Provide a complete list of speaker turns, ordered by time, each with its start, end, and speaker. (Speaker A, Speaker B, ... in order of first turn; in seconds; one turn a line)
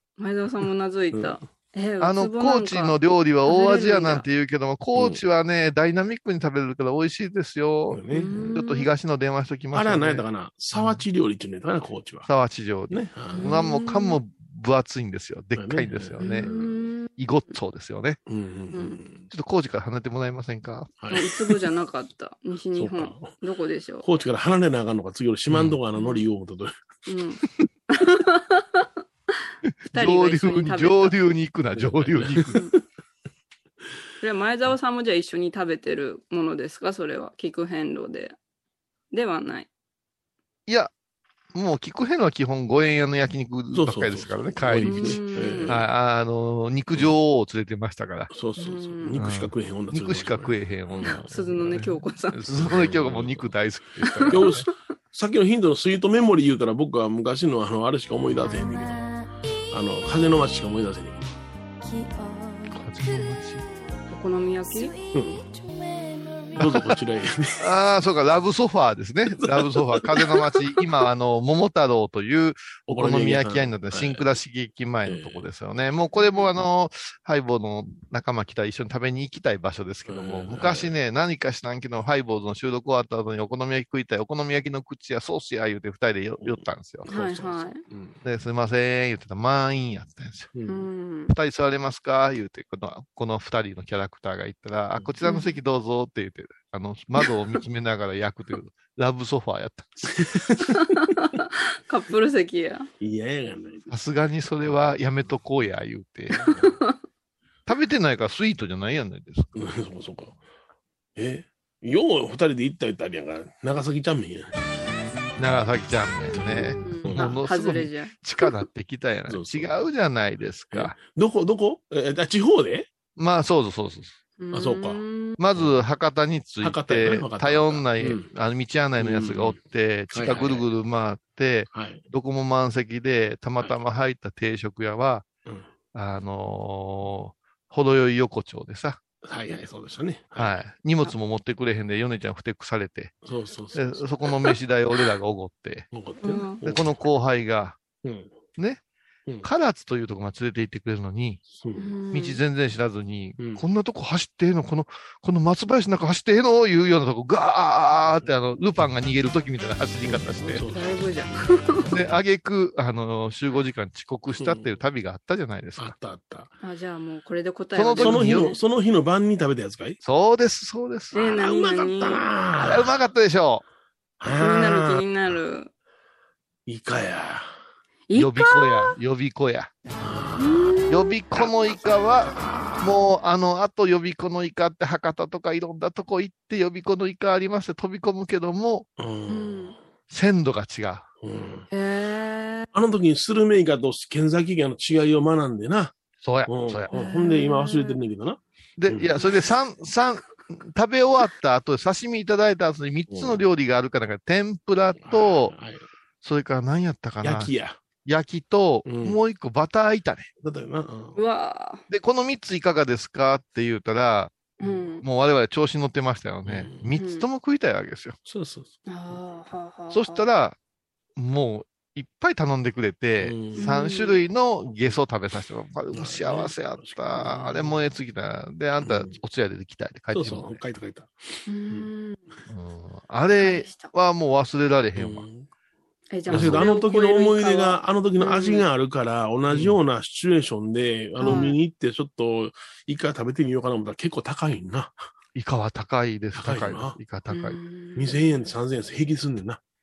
Speaker A: 0.2-4.3
Speaker B: 2.0-11.1
Speaker C: 5.0-5.2
Speaker C: 7.9-8.6
Speaker A: 8.1-8.9
Speaker C: 9.7-12.3
Speaker B: 12.3-16.5
Speaker C: 12.9-13.5
Speaker A: 13.3-14.2
Speaker C: 15.6-16.8
Speaker A: 16.2-17.1
Speaker B: 17.2-18.2
Speaker C: 18.3-19.3
Speaker A: 18.7-19.0
Speaker B: 19.3-20.9
Speaker C: 21.0-21.6
Speaker A: 21.1-24.1
Speaker C: 22.8-23.3
Speaker C: 24.0-26.7
Speaker B: 25.5-25.8
Speaker A: 25.9-26.3
Speaker A: 27.1-28.9
Speaker B: 29.7-32.6
Speaker A: 29.9-31.2
Speaker C: 31.8-32.8
Speaker A: 34.2-38.4
Speaker A: 39.1-39.7
Speaker B: 41.5-48.3
Speaker C: 43.7-45.8
Speaker A: 44.8-45.8
Speaker C: 48.3-51.2
Speaker A: 48.6-49.2
Speaker B: 49.2-54.6
Speaker A: 51.0-52.4
Speaker C: 52.5-53.5
Speaker C: 54.3-59.1
Speaker C: 59.7-61.4
Speaker B: 62.7-63.7
Speaker A: 64.1-65.0
Speaker C: 65.1-65.5
Speaker C: 66.5-67.7
Speaker B: 66.6-67.0
Speaker B: 67.6-87.1
Speaker C: 69.4-70.3
Speaker C: 72.9-74.2
Speaker C: 75.1-75.5
Speaker A: 76.2-76.5
Speaker C: 80.1-80.9
Speaker C: 86.4-88.2
Speaker A: 87.1-87.8
Speaker B: 88.2-90.5
Speaker C: 90.5-90.9
Speaker A: 90.7-91.3
Speaker B: 91.3-100.4
Speaker A: 95.2-95.5
Speaker C: 100.1-100.6
Speaker A: 100.7-102.9
Speaker C: 103.0-103.9
Speaker B: 103.9-106.5
Speaker C: 106.3-106.7
Speaker A: 106.6-107.0
Speaker B: 107.7-109.6
Speaker C: 109.6-110.4
Speaker C: 111.2-114.5
Speaker B: 115.4-121.0
Speaker C: 116.4-117.3
Speaker A: 116.7-118.5
Speaker C: 119.3-119.8
Speaker C: 120.7-122.9
Speaker B: 123.2-124.1
Speaker A: 124.4-125.4
Speaker C: 124.5-125.0
Speaker B: 125.4-135.3
Speaker C: 126.6-128.3
Speaker C: 129.0-129.6
Speaker C: 130.1-130.7
Speaker C: 131.7-132.0
Speaker B: 135.9-139.0
Speaker C: 139.2-140.6
Speaker B: 140.4-143.2
Speaker C: 143.2-144.5
Speaker B: 143.8-145.9
Speaker C: 145.9-146.9
Speaker A: 146.2-146.6
Speaker B: 146.6-147.8
Speaker C: 148.0-148.3
Speaker B: 149.4-151.4
Speaker C: 151.5-151.9
Speaker A: 151.8-152.4
Speaker B: 152.1-160.7
Speaker C: 153.4-153.7
Speaker C: 160.0-162.0
Speaker A: 160.7-161.9
Speaker B: 161.9-165.9
Speaker C: 164.3-164.7
Speaker C: 165.8-166.5
Speaker A: 166.6-168.6
Speaker B: 167.8-168.5
Speaker C: 168.0-170.0
Speaker B: 170.0-171.2
Speaker A: 171.1-172.3
Speaker C: 171.2-173.0
Speaker B: 172.6-173.6
Speaker C: 174.2-175.4
Speaker A: 174.3-175.7
Speaker C: 176.7-177.6
Speaker A: 178.1-178.9
Speaker B: 178.1-179.7
Speaker C: 180.0-180.7
Speaker A: 180.4-181.1
Speaker B: 180.9-188.9
Speaker C: 182.3-183.0
Speaker C: 189.0-189.8
Speaker A: 189.3-189.8
Speaker B: 190.1-191.1
Speaker C: 191.2-191.7
Speaker A: 191.7-192.7
Speaker C: 192.7-195.9
Speaker B: 196.2-196.9
Speaker C: 196.5-199.1
Speaker A: 196.9-198.0
Speaker B: 198.8-205.5
Speaker C: 203.1-203.4
Speaker C: 205.0-205.8
Speaker B: 206.2-207.5
Speaker C: 207.2-207.8
Speaker B: 208.1-210.3
Speaker C: 208.8-209.2
Speaker C: 210.4-211.2
Speaker A: 211.2-211.8
Speaker B: 211.9-218.2
Speaker A: 214.6-215.1
Speaker C: 216.4-216.9
Speaker A: 216.9-217.3
Speaker C: 218.3-218.8
Speaker A: 218.9-220.3
Speaker B: 219.9-220.6
Speaker B: 221.2-230.6
Speaker C: 223.2-223.7
Speaker A: 223.6-224.2
Speaker C: 225.9-227.8
Speaker C: 228.8-229.2
Speaker C: 230.1-231.9
Speaker A: 231.5-232.3
Speaker B: 232.5-235.3
Speaker A: 233.4-233.9
Speaker C: 235.0-235.5
Speaker A: 236.1-238.7
Speaker C: 236.3-244.9
Speaker B: 236.3-236.7
Speaker B: 239.5-239.8
Speaker A: 241.2-241.6
Speaker B: 245.3-247.6
Speaker C: 246.3-247.0
Speaker A: 247.3-248.5
Speaker C: 248.0-249.6